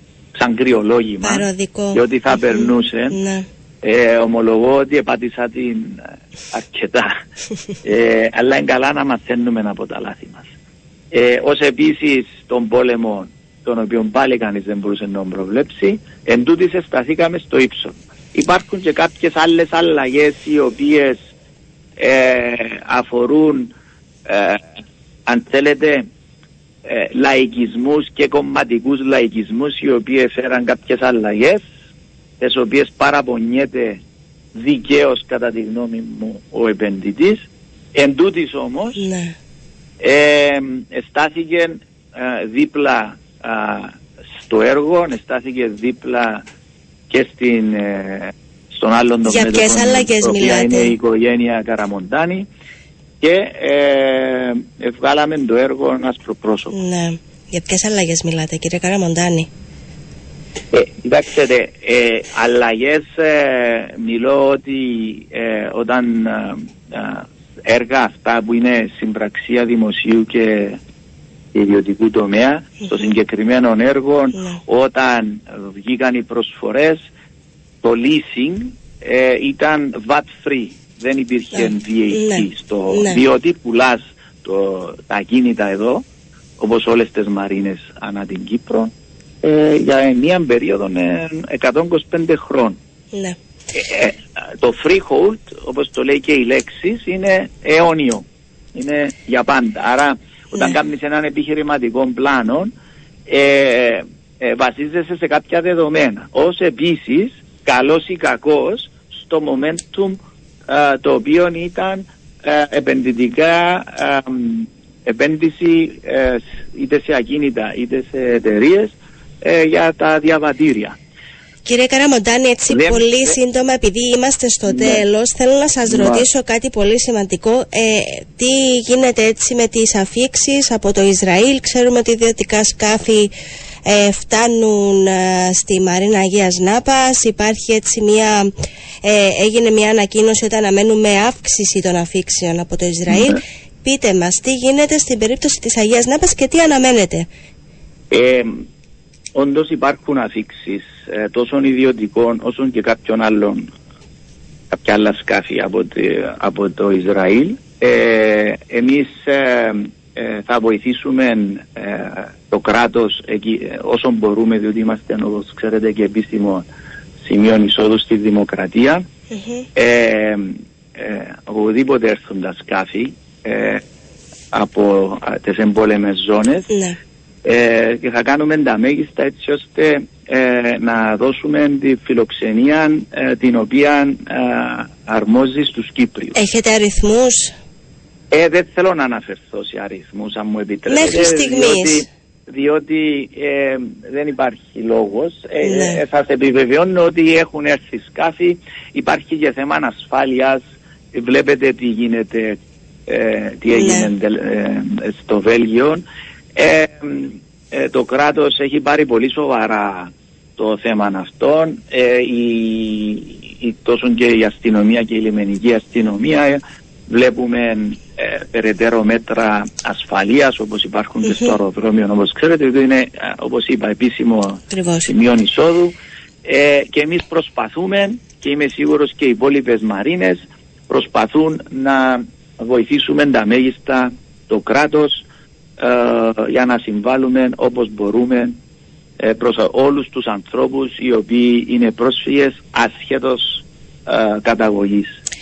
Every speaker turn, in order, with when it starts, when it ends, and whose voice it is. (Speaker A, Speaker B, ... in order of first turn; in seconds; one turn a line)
Speaker A: 0.3-3.2
Speaker B: 1.2-3.5
Speaker A: 3.8-7.2
Speaker A: 7.8-10.4
Speaker A: 11.1-21.2
Speaker A: 22.0-23.7
Speaker A: 24.2-24.7
Speaker A: 25.3-26.1
Speaker A: 26.9-31.6
Speaker A: 32.4-34.0
Speaker A: 34.5-39.0
Speaker B: 38.9-39.4
Speaker A: 40.0-46.4
Speaker A: 47.1-52.5
Speaker B: 49.2-51.0
Speaker A: 53.2-56.7
Speaker B: 56.7-59.5
Speaker A: 60.7-70.8
Speaker A: 71.5-77.0
Speaker B: 74.3-74.6
Speaker A: 77.8-86.0
Speaker B: 81.5-83.2
Speaker A: 86.6-92.8
Speaker A: 93.7-102.7
Speaker A: 103.3-121.0
Speaker B: 121.6-133.3
Speaker A: 122.7-123.4
Speaker A: 124.7-125.0
Speaker A: 125.9-126.2
Speaker B: 133.8-138.5
Speaker B: 139.0-147.3
Speaker A: 143.1-143.4
Speaker A: 148.1-148.7
Speaker A: 149.3-153.7
Speaker A: 154.7-166.7
Speaker A: 167.2-169.1
Speaker B: 169.3-169.7
Speaker A: 169.7-173.8
Speaker A: 174.5-176.7
Speaker B: 176.7-177.0
Speaker A: 177.4-186.3
Speaker B: 186.3-187.5
Speaker A: 188.3-200.6
Speaker B: 190.9-192.1
Speaker B: 195.6-196.0
Speaker A: 201.1-235.3
Speaker B: 203.7-204.1
Speaker B: 224.7-225.1
Speaker A: 235.8-238.6
Speaker A: 239.2-245.1